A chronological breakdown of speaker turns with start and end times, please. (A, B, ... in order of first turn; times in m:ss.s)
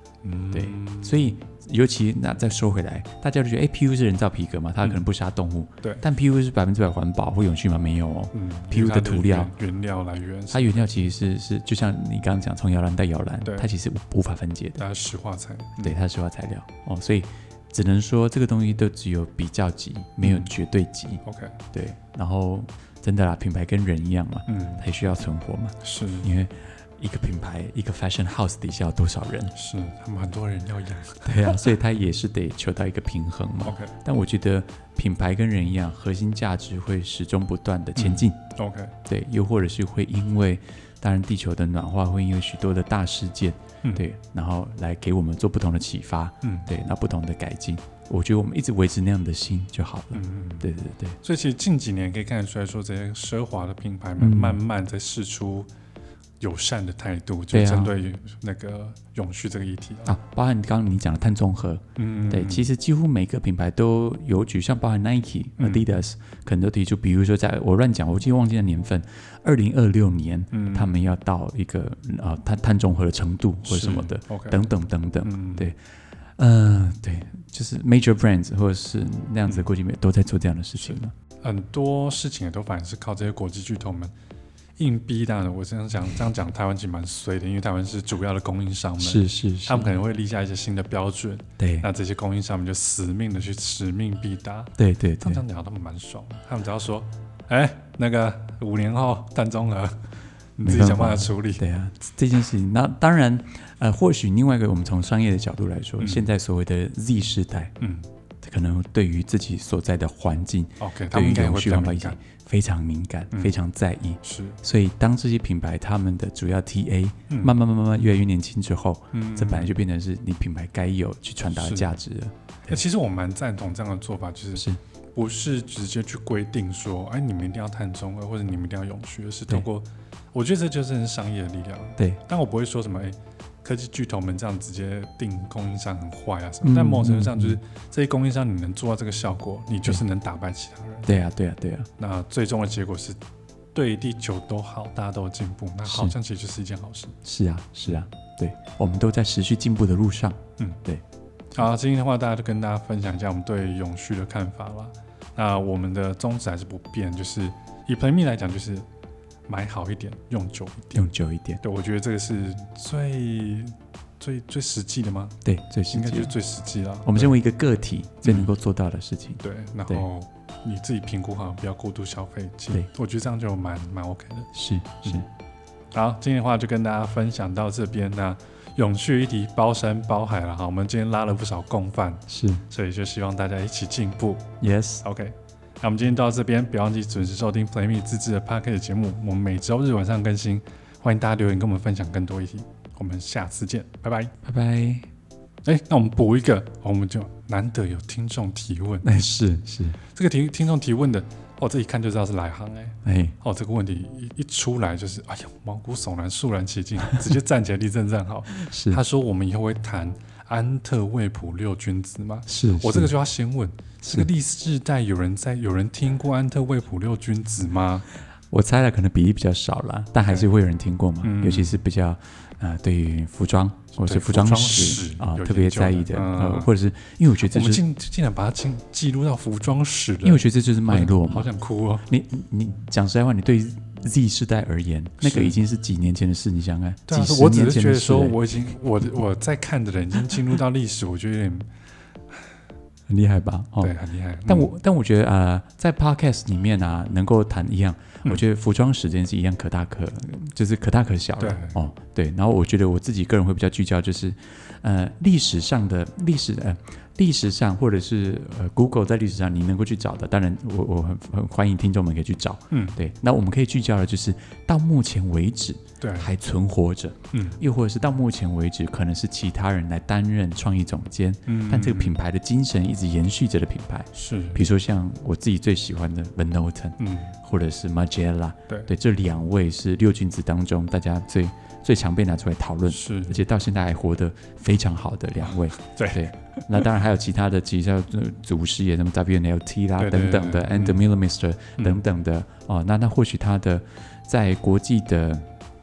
0:00.2-0:01.4 A
0:00.5-0:09.5 B
0:08.3-0:11.1 A
0:10.5-0:14.8 B
0:13.4-0:13.7 A
0:14.8-0:16.0 A
0:15.8-0:29.5 B
0:20.2-0:20.5 A
0:21.2-0:21.6 A
0:24.5-0:24.9 A
0:25.8-0:26.3 A
0:29.5-0:31.7 A
0:31.2-0:38.4 B
0:33.6-0:34.0 A
0:38.0-0:39.0 A
0:39.1-0:51.2 B
0:46.4-0:46.7 A
0:50.1-0:50.7 A
0:51.2-0:55.7 A
0:54.2-0:54.6 B
0:56.4-1:00.2 A
0:57.5-0:57.9 B
1:00.1-1:21.1 B
1:02.0-1:02.7 A
1:05.6-1:05.9 A
1:10.5-1:11.0 A
1:13.6-1:14.6 A
1:15.2-1:15.7 A
1:20.8-1:24.1 A
1:24.8-1:41.6 A
1:29.0-1:29.9 B
1:31.6-1:31.9 B
1:34.8-1:35.4 B
1:40.6-1:47.8 B
1:46.0-1:46.3 A
1:47.8-1:48.1 A
1:48.4-2:02.8 B
1:50.8-1:52.2 A
1:54.2-1:54.6 A
1:57.3-1:57.5 A
1:59.1-1:59.7 A
2:01.5-2:02.0 A
2:02.7-2:21.2 A
2:16.6-2:17.6 B
2:21.1-2:21.9 B
2:22.0-2:23.2 A
2:23.8-2:27.2 A
2:25.8-2:26.1 B
2:27.2-2:31.0 B
2:31.6-2:38.9 A
2:39.5-2:41.1 A
2:41.0-2:41.6 B
2:41.6-2:45.4 A
2:45.4-2:46.3 B
2:45.9-2:47.4 A
2:47.0-2:50.0 B
2:48.2-2:48.5 A
2:49.4-2:54.5 A
2:54.5-2:55.3 B
2:55.9-3:14.3 A
3:02.3-3:02.6 B
3:04.6-3:05.0 B
3:14.4-3:15.1 B
3:15.6-3:19.1 A
3:19.0-3:20.0 B
3:20.1-3:38.1 A
3:23.0-3:23.4 B
3:28.5-3:29.0 B
3:32.5-3:33.1 B
3:38.5-3:47.8 B
3:40.2-3:40.5 A
3:41.2-3:41.8 A
3:44.0-3:46.7 A
3:47.4-3:52.1 A
3:50.2-3:51.5 B
3:52.0-3:58.4 B
3:55.2-3:55.6 A
3:57.1-4:01.7 A
4:03.1-4:03.9 B
4:03.8-4:04.8 A
4:04.5-4:55.5 B
4:11.4-4:11.8 A
4:22.7-4:23.0 A
4:26.0-4:26.3 A
4:27.3-4:27.6 A
4:31.5-4:32.2 A
4:34.1-4:34.7 A
4:37.0-4:37.4 A
4:42.9-4:43.4 A
4:45.5-4:46.6 A
4:50.0-4:51.0 A
4:51.8-4:52.0 A